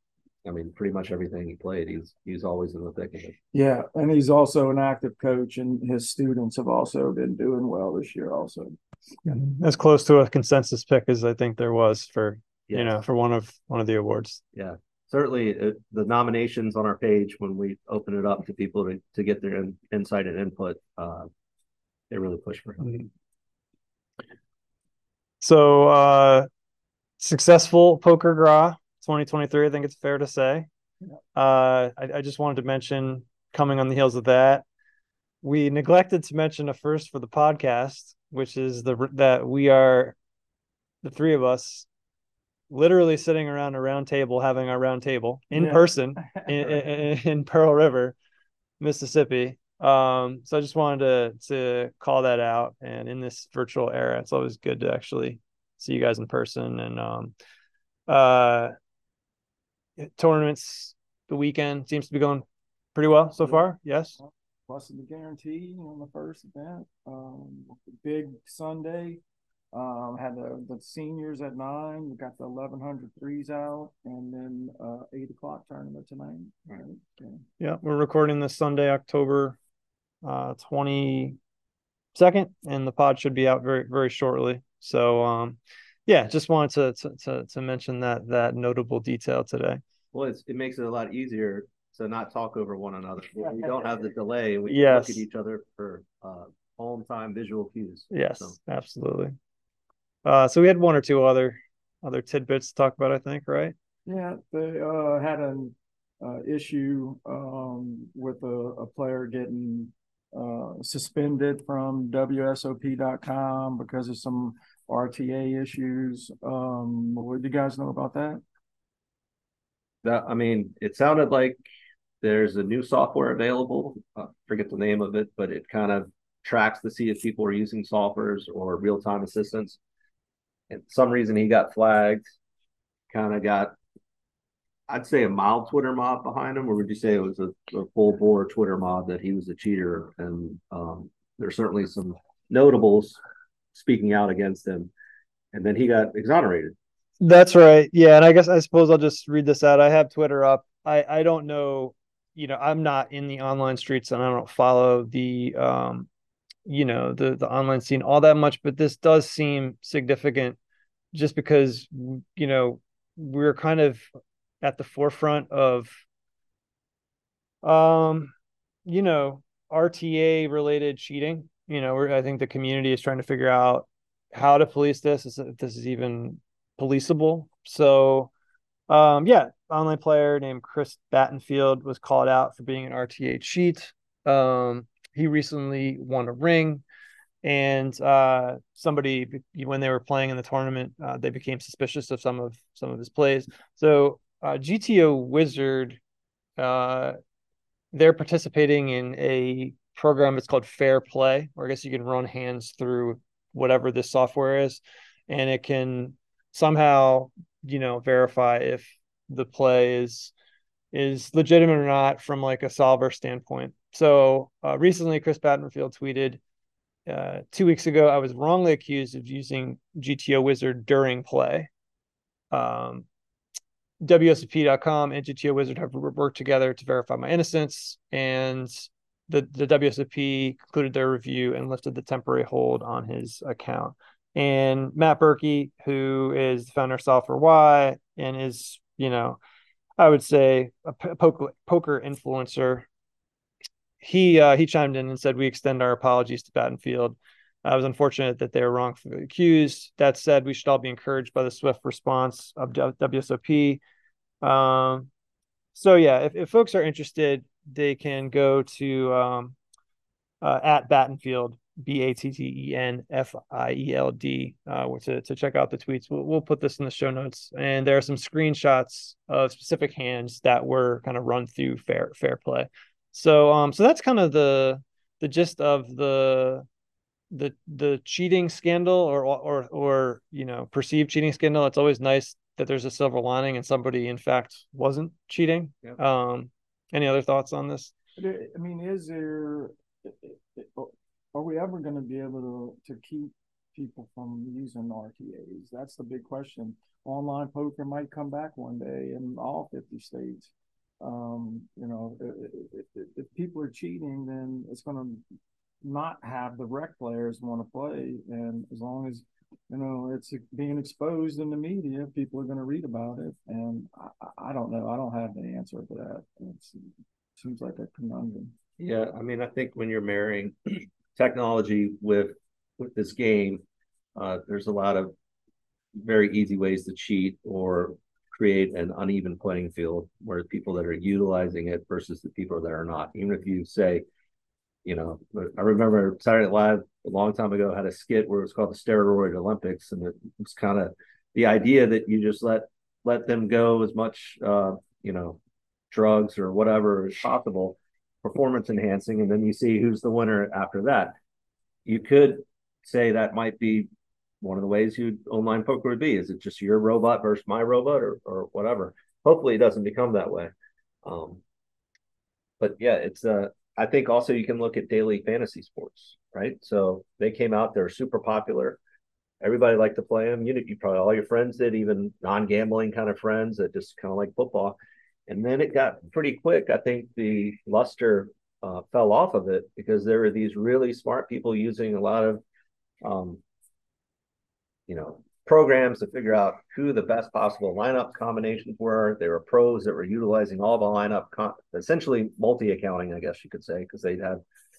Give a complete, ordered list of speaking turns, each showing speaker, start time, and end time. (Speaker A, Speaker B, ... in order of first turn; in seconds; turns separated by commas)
Speaker A: 0.4-3.3, Speaker B: 3.5-8.8, Speaker C: 9.2-14.4, Speaker A: 12.7-13.0, Speaker A: 14.5-21.3, Speaker A: 22.1-22.9, Speaker C: 25.4-26.5, Speaker C: 27.2-30.7, Speaker C: 31.3-34.6, Speaker C: 35.4-40.1, Speaker C: 41.0-41.9, Speaker C: 42.7-48.1, Speaker B: 45.5-46.8, Speaker C: 48.8-57.3, Speaker C: 58.1-58.7, Speaker C: 60.0-64.2, Speaker B: 63.4-63.6, Speaker B: 64.2-69.2, Speaker B: 69.7-77.4, Speaker C: 77.6-79.6, Speaker C: 80.2-81.4, Speaker C: 82.1-89.8, Speaker A: 90.1-98.6, Speaker C: 94.7-95.2, Speaker C: 98.1-99.3, Speaker C: 100.2-103.8, Speaker B: 104.0-118.4, Speaker A: 120.0-121.6, Speaker A: 122.2-129.8, Speaker A: 130.7-132.3, Speaker A: 133.1-133.8, Speaker A: 134.9-143.2, Speaker A: 143.7-144.9, Speaker A: 145.5-146.8, Speaker C: 147.2-156.1, Speaker C: 156.7-160.6, Speaker C: 161.1-164.1, Speaker C: 164.6-165.9, Speaker C: 167.6-168.3, Speaker C: 168.9-178.3, Speaker C: 178.9-186.8, Speaker C: 187.4-196.0, Speaker C: 196.6-197.2, Speaker C: 197.9-210.3, Speaker C: 210.9-216.4, Speaker C: 217.1-221.7, Speaker C: 222.5-223.1, Speaker C: 224.0-239.4, Speaker C: 240.0-242.9, Speaker C: 244.0-253.8, Speaker C: 254.4-255.1, Speaker C: 255.7-259.6, Speaker C: 260.4-276.6, Speaker C: 277.3-287.9, Speaker B: 288.2-305.2, Speaker B: 305.8-318.5, Speaker A: 318.8-323.6, Speaker A: 324.1-325.1, Speaker A: 325.9-334.0, Speaker A: 334.8-345.4, Speaker A: 345.9-351.1, Speaker A: 351.9-353.9, Speaker A: 354.4-360.5, Speaker A: 361.0-361.4, Speaker A: 362.6-368.8, Speaker A: 369.4-374.8, Speaker A: 375.3-382.4, Speaker A: 383.0-383.4, Speaker A: 384.9-394.4